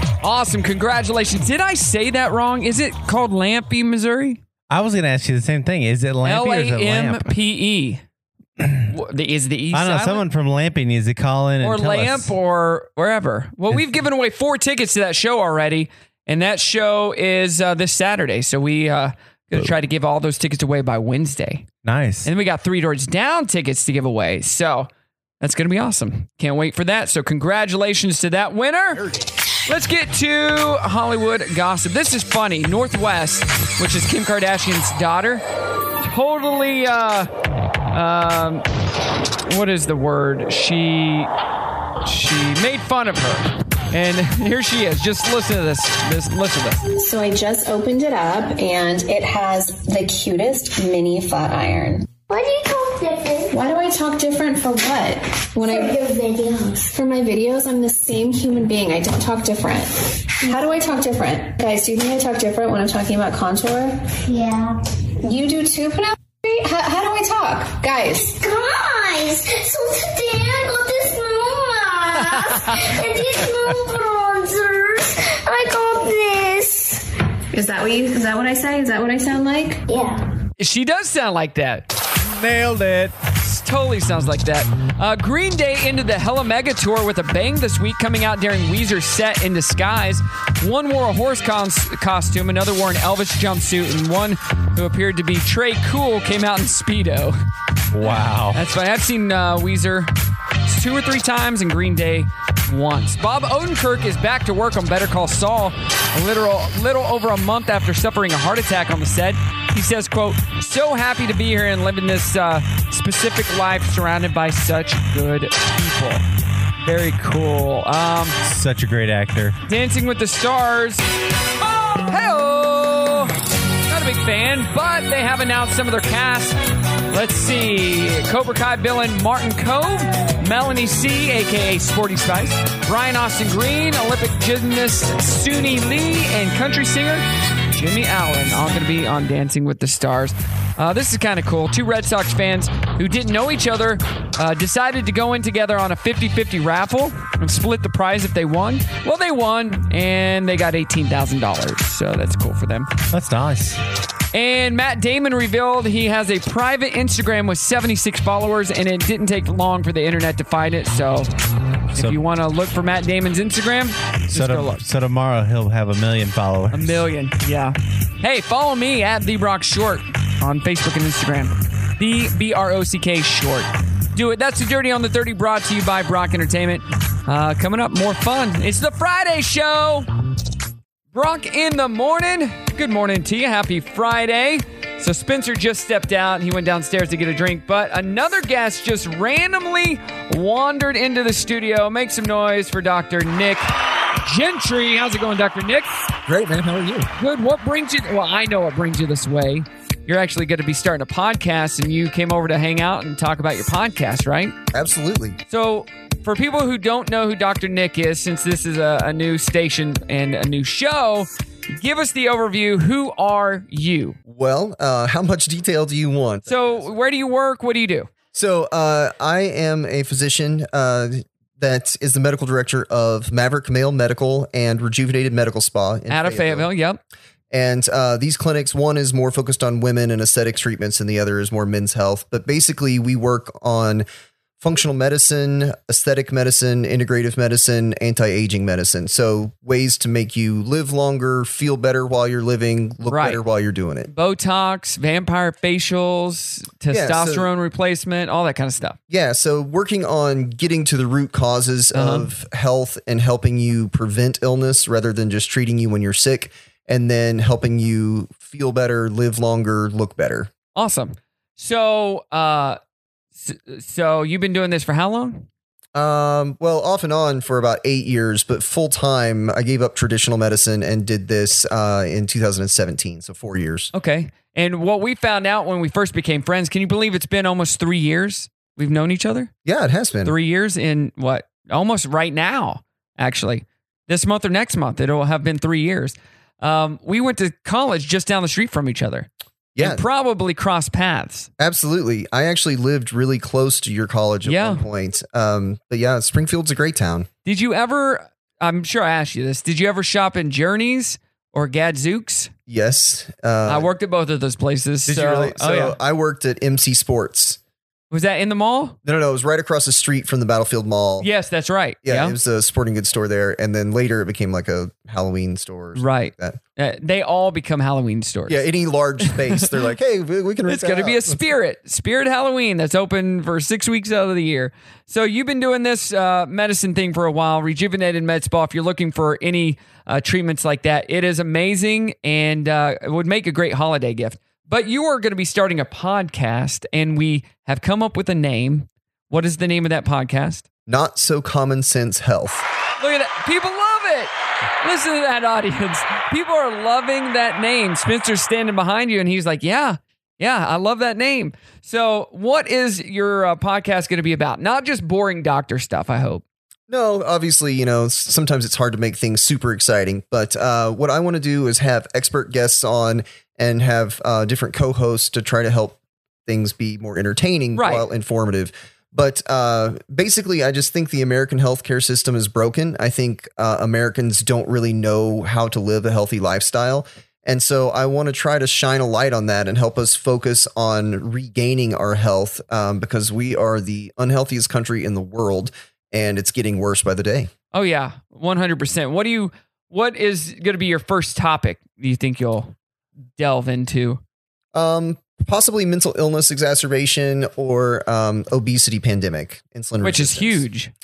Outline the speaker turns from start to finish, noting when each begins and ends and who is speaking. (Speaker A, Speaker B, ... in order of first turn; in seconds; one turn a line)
Speaker A: 0.2-4.4
Speaker B: 4.7-7.3
Speaker A: 6.2-8.0
Speaker B: 8.6-8.9
Speaker A: 8.9-10.2
Speaker B: 9.7-12.3
Speaker A: 11.6-21.7
Speaker B: 21.8-22.3
Speaker A: 22.2-24.9
Speaker A: 25.4-29.0
Speaker A: 29.7-35.4
Speaker A: 36.0-37.3
Speaker A: 37.9-38.6
Speaker A: 39.5-41.3
Speaker A: 42.0-46.8
Speaker C: 46.9-52.1
Speaker D: 52.3-53.5
Speaker C: 53.5-56.0
Speaker D: 55.6-56.9
Speaker C: 56.9-64.0
Speaker D: 64.2-64.8
Speaker C: 65.2-68.3
Speaker D: 68.2-77.1
Speaker A: 72.2-72.8
Speaker C: 77.5-79.8
Speaker D: 79.9-80.2
Speaker A: 80.6-81.8
Speaker B: 82.2-83.2
Speaker A: 83.4-97.4
Speaker B: 97.9-98.6
Speaker A: 98.5-100.1
Speaker A: 100.7-116.2
Speaker A: 116.8-118.4
Speaker B: 118.4-119.6
Speaker A: 119.7-121.1
Speaker A: 121.7-123.3
Speaker A: 123.9-126.6
Speaker A: 127.1-152.9
Speaker B: 153.1-153.8
Speaker A: 154.3-161.3
Speaker A: 161.9-164.8
Speaker B: 164.3-167.1
Speaker A: 166.7-180.1
Speaker A: 181.1-193.7
Speaker A: 194.2-195.9
Speaker E: 196.3-197.1
Speaker A: 197.2-204.6
Speaker E: 204.7-205.4
Speaker A: 205.5-214.2
Speaker E: 214.3-216.9
Speaker A: 216.5-218.1
Speaker E: 218.3-226.7
Speaker A: 226.1-227.0
Speaker E: 227.5-234.1
Speaker E: 234.6-244.1
Speaker A: 243.1-243.4
Speaker A: 244.1-249.0
Speaker E: 246.9-247.5
Speaker E: 249.1-260.5
Speaker A: 251.9-252.3
Speaker A: 260.8-262.8
Speaker A: 263.4-265.5
Speaker E: 265.9-273.9
Speaker A: 273.9-279.5
Speaker E: 279.6-280.4
Speaker A: 280.2-291.5
Speaker E: 289.8-290.0
Speaker E: 291.6-297.3
Speaker A: 294.4-294.8
Speaker A: 297.4-302.5
Speaker E: 302.7-303.9
Speaker A: 303.7-306.0
Speaker E: 305.1-307.6
Speaker A: 308.1-309.0
Speaker E: 309.1-311.3
Speaker A: 311.2-312.4
Speaker E: 312.0-316.6
Speaker A: 315.9-318.6
Speaker E: 318.5-321.5
Speaker A: 320.7-340.6
Speaker E: 340.9-342.6
Speaker A: 343.0-344.3
Speaker A: 344.8-356.4
Speaker E: 356.9-387.5
Speaker A: 367.8-368.1
Speaker A: 387.7-392.7
Speaker A: 393.4-394.2
Speaker E: 394.7-400.6
Speaker A: 400.0-400.9